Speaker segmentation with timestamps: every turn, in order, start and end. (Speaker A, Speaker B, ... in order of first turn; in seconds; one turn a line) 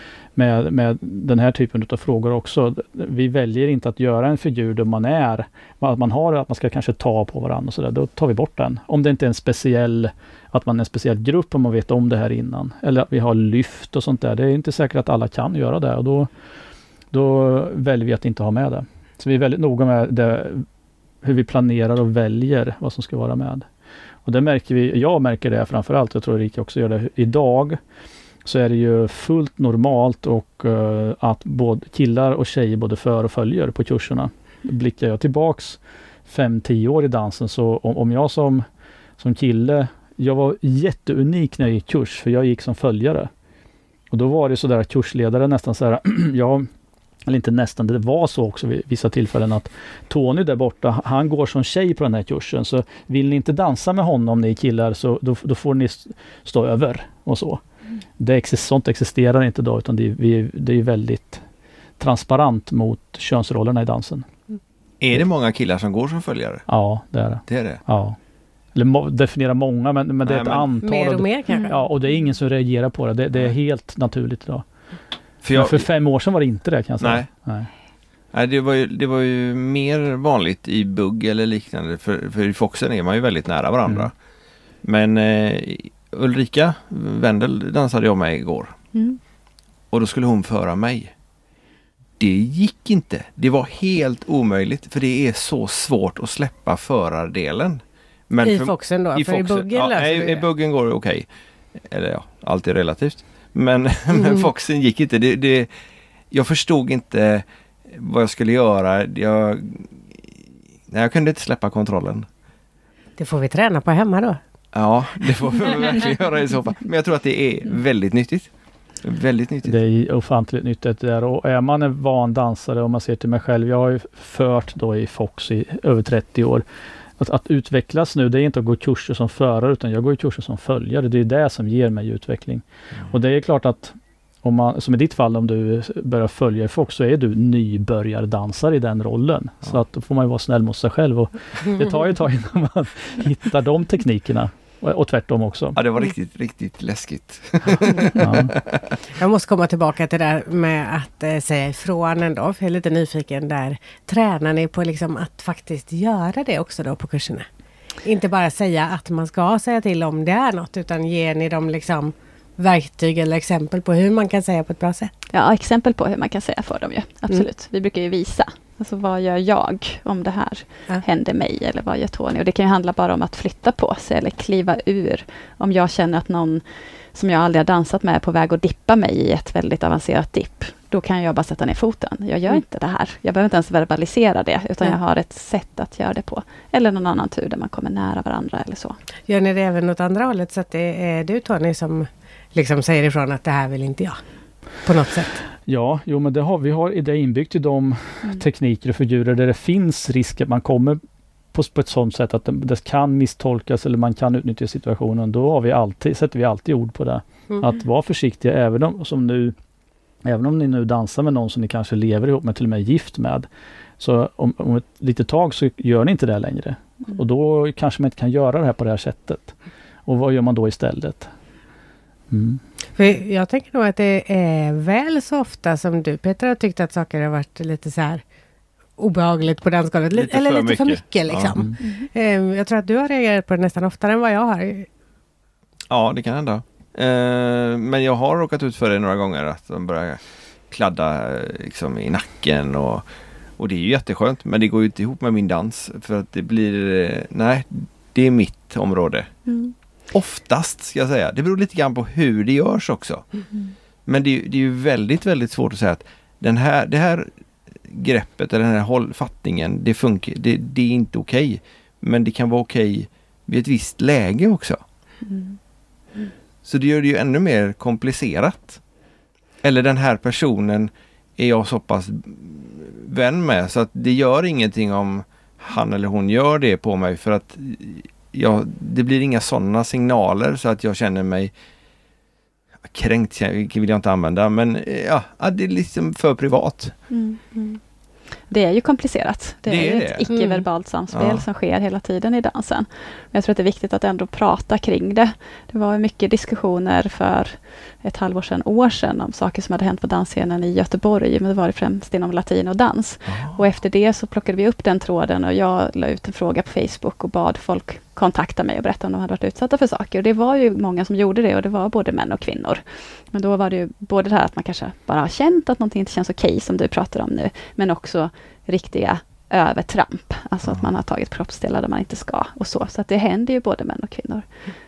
Speaker A: 0.3-16.3
Speaker A: 17.1-20.6
Speaker A: 21.2-23.6
Speaker A: 24.2-27.8
Speaker A: 28.4-38.6
Speaker A: 39.2-43.3
Speaker A: 44.1-46.7
Speaker A: 47.2-57.6
Speaker A: 58.2-61.4
Speaker A: 62.0-64.2
Speaker B: 65.0-66.6
Speaker A: 66.7-68.2
Speaker B: 67.5-67.8
Speaker A: 68.7-74.6
Speaker B: 70.2-70.7
Speaker C: 70.8-71.8
Speaker D: 71.5-71.8
Speaker B: 75.4-75.8
Speaker A: 75.5-77.7
Speaker B: 77.0-77.3
Speaker B: 78.3-84.1
Speaker B: 84.8-88.7
Speaker D: 88.9-89.2
Speaker B: 89.9-91.1
Speaker B: 92.2-105.7
Speaker C: 98.4-100.4
Speaker C: 104.2-104.5
Speaker B: 106.3-110.2
Speaker B: 110.9-112.2
Speaker C: 113.2-114.4
Speaker B: 114.7-118.5
Speaker B: 119.0-119.8
Speaker A: 119.6-126.6
Speaker A: 127.2-145.8
Speaker B: 145.7-148.9
Speaker A: 148.2-148.6
Speaker C: 149.2-157.4
Speaker C: 158.0-165.1
Speaker D: 165.3-189.0
Speaker C: 189.3-194.2
Speaker C: 194.8-195.4
Speaker A: 195.7-201.0
Speaker A: 201.5-209.5
Speaker A: 210.2-213.5
Speaker A: 214.0-219.5
Speaker A: 220.1-221.3
Speaker A: 222.3-222.6
Speaker C: 223.0-228.2
Speaker C: 229.0-234.9
Speaker B: 230.1-231.6
Speaker D: 231.8-232.1
Speaker B: 235.9-243.1
Speaker B: 243.6-249.3
Speaker D: 249.4-249.7
Speaker B: 250.1-253.2
Speaker B: 254.1-257.3
Speaker B: 257.9-264.8
Speaker D: 265.2-265.6
Speaker B: 266.6-268.8
Speaker B: 269.6-281.5
Speaker B: 282.9-286.9
Speaker D: 287.1-287.8
Speaker D: 288.5-324.4
Speaker B: 289.6-290.3
Speaker C: 290.3-290.6
Speaker B: 291.1-291.4
Speaker B: 303.3-303.6